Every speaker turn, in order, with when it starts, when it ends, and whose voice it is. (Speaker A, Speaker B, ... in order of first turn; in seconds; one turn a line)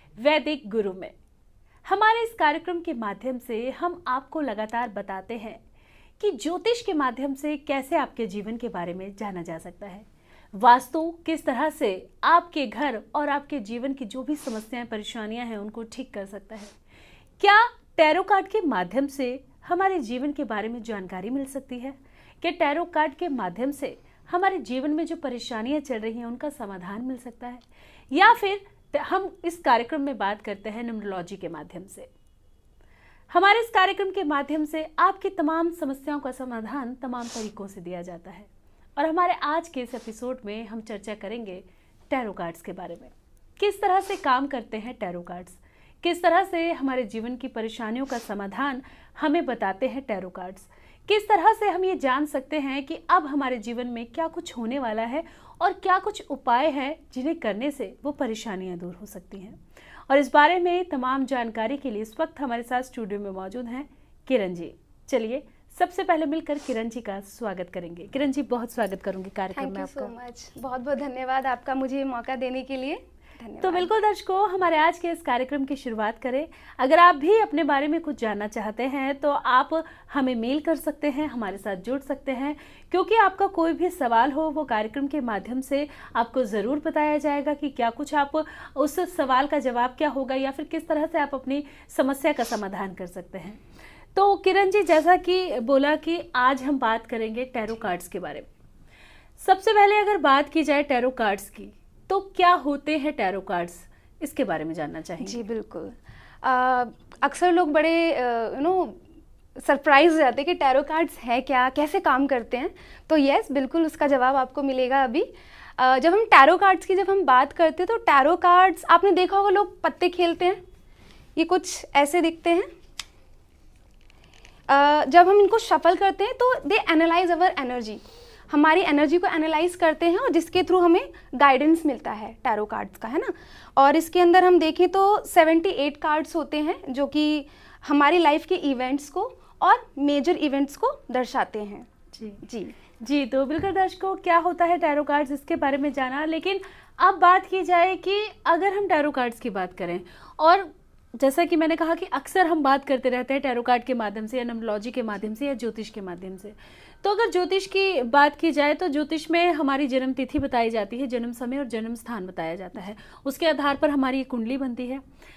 Speaker A: 0.2-1.1
Speaker A: 1.9-5.6
Speaker A: 6.2-16.8
Speaker A: 17.4-32.1
Speaker A: 33.3-70.1
Speaker B: 69.5-73.9
Speaker A: 73.6-93.6
Speaker A: 94.1-98.5
Speaker A: 99.4-105.4
Speaker B: 105.2-109.0
Speaker B: 109.6-120.6
Speaker B: 121.4-122.7
Speaker B: 124.7-141.9
Speaker A: 142.1-142.4
Speaker B: 142.4-142.8
Speaker A: 143.0-165.0